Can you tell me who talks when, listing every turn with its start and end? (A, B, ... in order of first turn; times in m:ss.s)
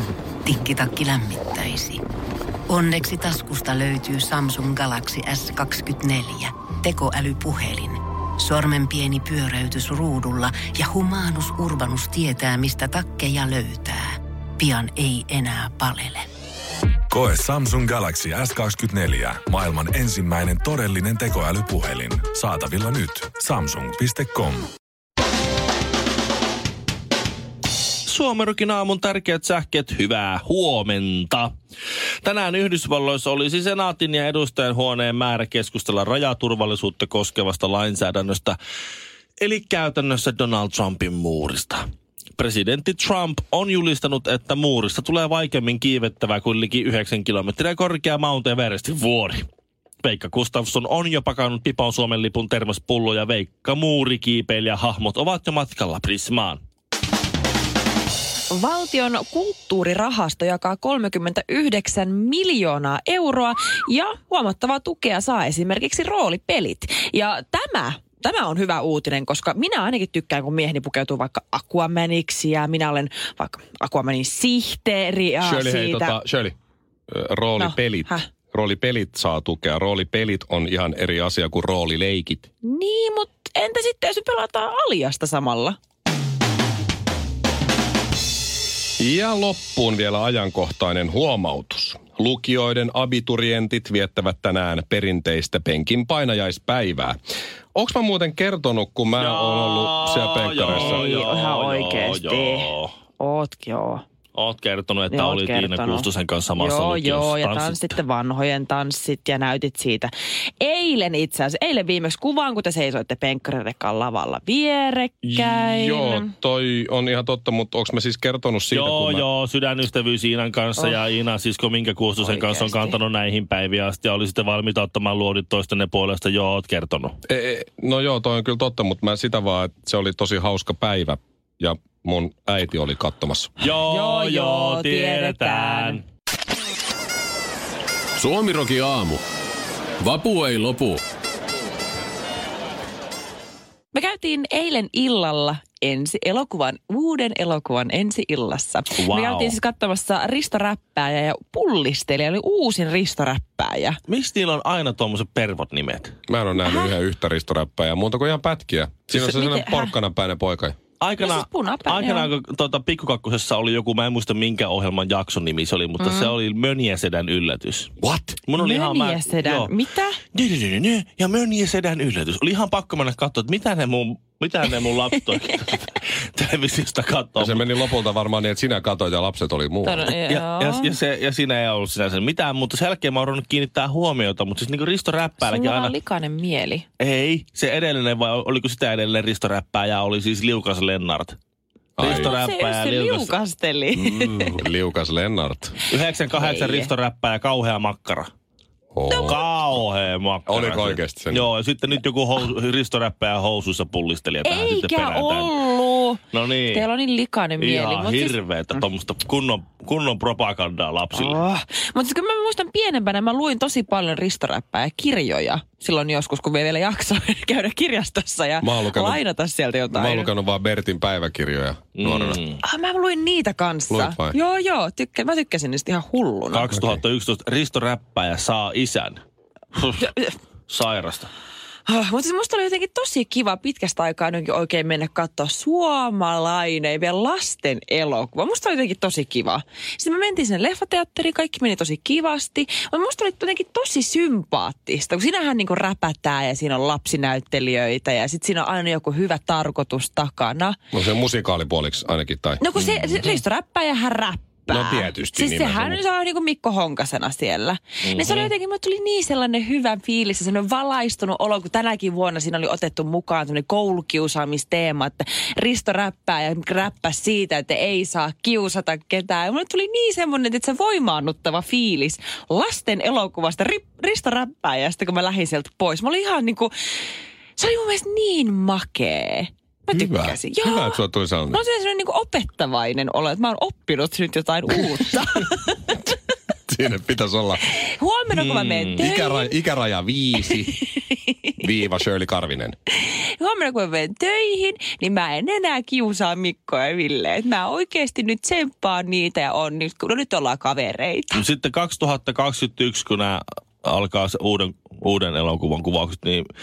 0:00.4-0:02.0 A
0:02.7-0:16.3 A
0:17.1-0:24.7 B
0:28.1-0:31.5 C
0:32.2-0:38.6 C
0:39.4-0:41.8 C
0:42.4-0:49.5 C
0:50.0-0:56.6 C
0:58.5-1:16.2 D
1:15.4-1:16.6 E
1:17.1-1:22.5 E
1:17.6-1:18.3 D
1:22.6-1:25.8 D
1:29.0-1:37.2 E
1:37.8-1:41.1 E
1:39.2-1:42.9 C
1:40.8-1:44.0 D
1:44.4-1:48.0 C
1:45.1-1:56.3 D
1:55.2-1:59.2 E
1:58.7-2:07.2 C
2:02.2-2:03.0 D
2:07.3-2:13.5 E
2:13.6-2:16.0 C
2:13.8-2:16.0 D
2:18.2-2:19.2 F
2:20.0-2:21.0 F
2:23.9-2:34.0 D
2:29.0-2:29.6 C
2:34.1-2:36.1 C
2:36.3-2:40.8 E
2:36.6-2:36.9 D
2:39.2-2:40.0 D
2:41.0-2:47.9 C
2:41.2-2:42.3 D
2:46.0-2:46.4 D
2:48.0-2:48.4 E
2:48.5-2:49.7 C
2:48.5-2:50.2 D
2:50.3-2:57.9 C
2:55.3-2:55.6 D
2:57.4-3:00.1 E
2:59.8-3:00.9 D
3:00.2-3:06.0 C
3:05.4-3:06.8 D
3:07.0-3:11.4 C
3:12.0-3:12.4 E
3:12.0-3:13.3 C
3:12.0-3:14.6 D
3:14.1-3:15.8 E
3:15.9-3:16.9 D
3:15.9-3:18.3 C
3:18.9-3:19.4 E
3:19.1-3:19.5 D
3:19.2-3:25.6 C
3:20.5-3:21.5 E
3:24.4-3:28.8 D
3:26.3-3:26.9 C
3:27.6-3:31.4 C
3:31.1-3:40.3 D
3:38.6-3:39.2 E
3:39.9-3:42.4 E
3:42.0-3:42.6 C
3:42.6-3:46.8 D
3:43.9-3:44.4 E
3:46.5-3:49.2 C
3:49.8-3:50.1 C
3:50.0-3:50.3 D
3:50.7-3:51.3 C
3:51.9-4:10.8 D
4:10.9-4:12.6 E
4:12.6-4:36.7 D
4:12.8-4:13.1 C
4:14.7-4:16.0 E
4:18.0-4:18.5 C
4:37.6-4:46.1 D
4:39.9-4:41.6 E
4:46.7-4:47.7 E
4:47.7-4:49.6 D
4:48.3-4:49.1 C
4:49.0-4:50.8 E
4:50.5-4:51.5 D
4:51.6-4:52.8 E
4:53.0-5:01.5 D
5:01.3-5:06.5 C